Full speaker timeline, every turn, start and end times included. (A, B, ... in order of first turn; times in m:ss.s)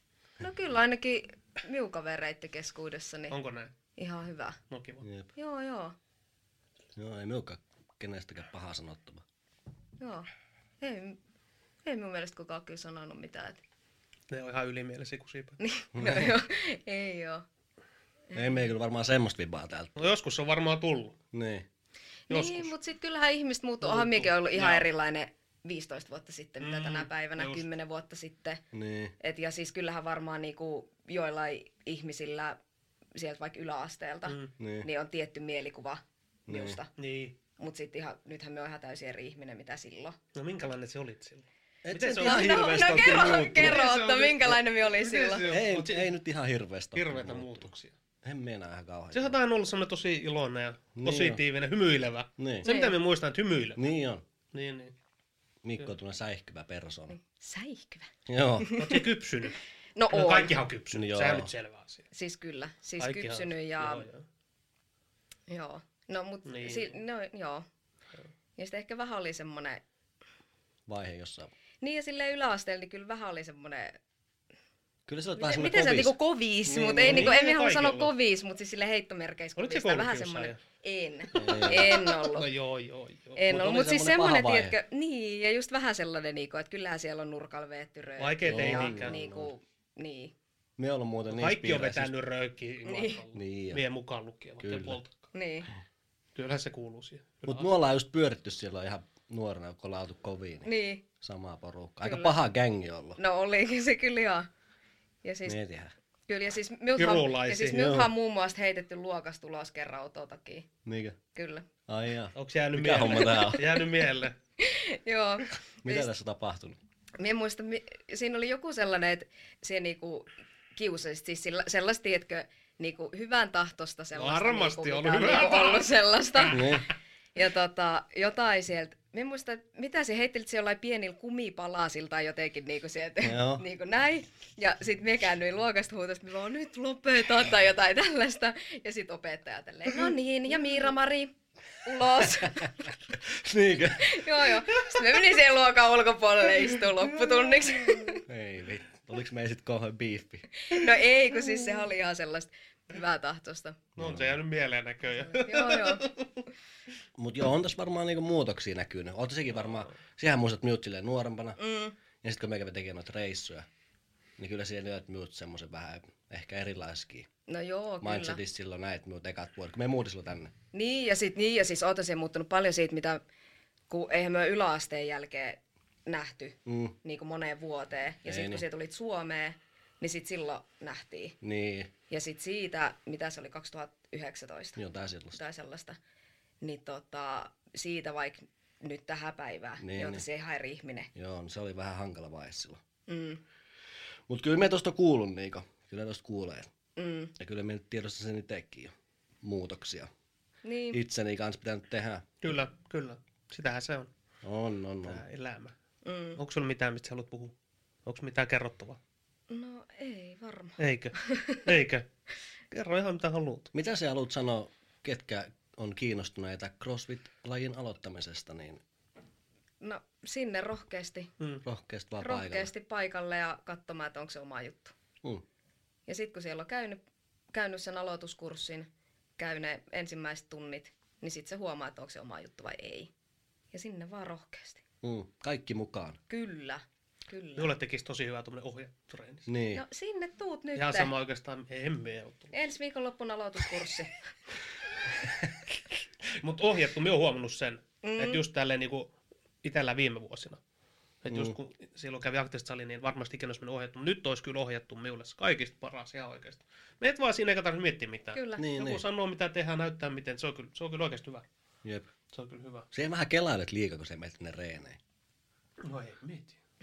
0:00.4-0:03.3 A
0:03.3-0:03.7 B
0:04.0-0:04.6 A
0:04.7-0:05.0 B
0:05.0-0:05.3 C
0:05.3-0:06.0 A
0:07.0-0:09.2 C
0:10.0-0:10.3 A
0:10.8-0:11.2 A
0:11.8-0:13.6 A
0:14.3-0:15.6 B
0:15.6-0:17.4 A
0:15.9-0:16.3 C
0:18.3-0:20.1 C
0:20.0-0:21.2 B
0:21.3-0:21.6 C
0:22.3-0:28.6 A
0:22.3-0:22.7 B
0:23.8-0:24.8 B
0:26.6-0:27.6 B
0:28.7-0:29.1 C
0:29.2-0:32.6 A
0:33.1-0:36.9 A
0:34.3-0:34.5 B
0:34.6-0:34.9 C
0:36.5-0:36.8 C
0:37.0-0:37.4 B
0:37.6-0:40.2 A
0:40.3-0:46.1 B
0:41.8-0:43.8 C
0:42.2-0:45.5 A
0:45.4-0:47.7 C
0:46.9-0:47.9 B
0:48.2-0:49.4 C
0:49.1-0:53.8 B
0:50.9-0:51.4 C
0:52.4-0:52.7 C
0:52.6-0:53.0 A
0:53.8-0:54.2 C
0:54.5-0:54.9 B
0:55.6-0:57.2 C
0:57.1-0:59.1 A
0:58.3-0:58.8 C
0:58.7-0:59.6 B
1:00.0-1:00.6 A
1:00.1-1:02.1 B
1:00.9-1:01.5 C
1:02.1-1:04.0 A
1:03.0-1:04.2 B
1:05.5-1:07.6 A
1:06.4-1:06.9 B
1:08.6-1:09.8 A
1:10.9-1:11.5 C
1:11.8-1:14.0 A
1:15.1-1:16.1 C
1:15.4-1:22.5 A
1:16.6-1:17.3 C
1:16.9-1:18.1 B
1:19.6-1:20.6 B
1:21.3-1:21.9 C
1:21.4-1:23.5 B
1:23.4-1:30.3 A
1:23.4-1:24.8 C
1:28.2-1:29.2 B
1:28.4-1:29.5 C
1:30.8-1:32.1 C
1:31.3-1:35.3 B
1:32.8-1:33.2 A
1:33.3-1:33.8 C
1:34.6-1:35.0 C
1:35.3-1:35.7 A
1:36.3-1:37.7 B
1:37.4-1:43.2 C
1:40.6-1:41.0 A
1:42.0-1:42.4 A
1:43.2-1:44.5 A
1:45.2-1:45.6 A
1:45.4-1:45.9 C
1:46.3-1:50.7 A
1:47.0-1:47.9 B
1:47.7-1:48.1 C
1:50.8-1:51.2 C
1:51.3-1:51.7 A
1:51.9-1:53.7 C
1:52.3-1:54.3 B
1:54.6-1:56.1 A
1:55.8-1:56.8 C
1:57.2-2:06.8 A
2:04.1-2:06.7 B
2:06.5-2:06.8 C
2:07.3-2:21.3 A
2:13.2-2:13.6 C
2:21.8-2:22.9 A
2:22.2-2:24.8 C
2:23.9-2:28.2 A
2:28.2-2:30.5 C
2:30.6-2:33.8 A
2:34.0-2:34.4 C
2:34.0-2:36.4 B
2:35.1-2:36.1 A
2:37.2-2:41.6 C
2:41.6-2:42.0 A
2:42.2-2:43.7 C
2:44.4-2:47.3 C
2:47.5-2:48.4 A
2:48.0-2:50.5 C
2:50.7-2:53.2 A
2:53.9-3:01.4 A
2:56.6-2:56.9 C
2:58.2-2:58.6 C
3:01.4-3:01.9 C
3:02.1-3:04.8 A
3:04.8-3:05.4 C
3:05.3-3:06.0 A
3:06.6-3:11.1 A
3:09.8-3:10.2 C
3:11.1-3:12.8 C
3:13.1-3:13.4 A
3:14.3-3:16.7 C
3:17.0-3:17.3 A
3:17.4-3:20.1 C
3:20.6-3:21.0 A
3:20.9-3:22.3 C
3:22.4-3:24.1 B
3:24.4-3:25.2 C
3:25.0-3:25.7 B
3:26.0-3:26.4 A
3:26.4-3:27.5 B
3:28.0-3:29.0 B
3:29.5-3:31.8 A
3:30.8-3:32.0 B
3:32.7-3:33.7 B
3:33.7-3:38.8 C
3:39.8-3:41.3 A
3:41.6-3:42.7 C
3:42.2-3:44.9 A
3:46.1-3:47.0 A
3:47.5-3:48.9 A
3:49.4-3:53.1 A
3:53.7-3:54.8 A
3:55.0-3:56.2 C
3:56.3-3:57.7 A
3:57.6-3:59.5 B
3:59.5-3:59.8 C
3:59.7-4:01.1 A
4:00.7-4:02.5 B
4:02.5-4:04.1 A
4:06.3-4:10.6 B
4:08.0-4:08.4 A
4:11.2-4:21.4 B
4:11.3-4:11.6 C
4:18.3-4:18.6 A
4:18.6-4:19.0 C
4:21.8-4:22.1 C
4:22.3-4:22.9 B
4:22.9-4:25.0 C
4:25.8-4:26.6 B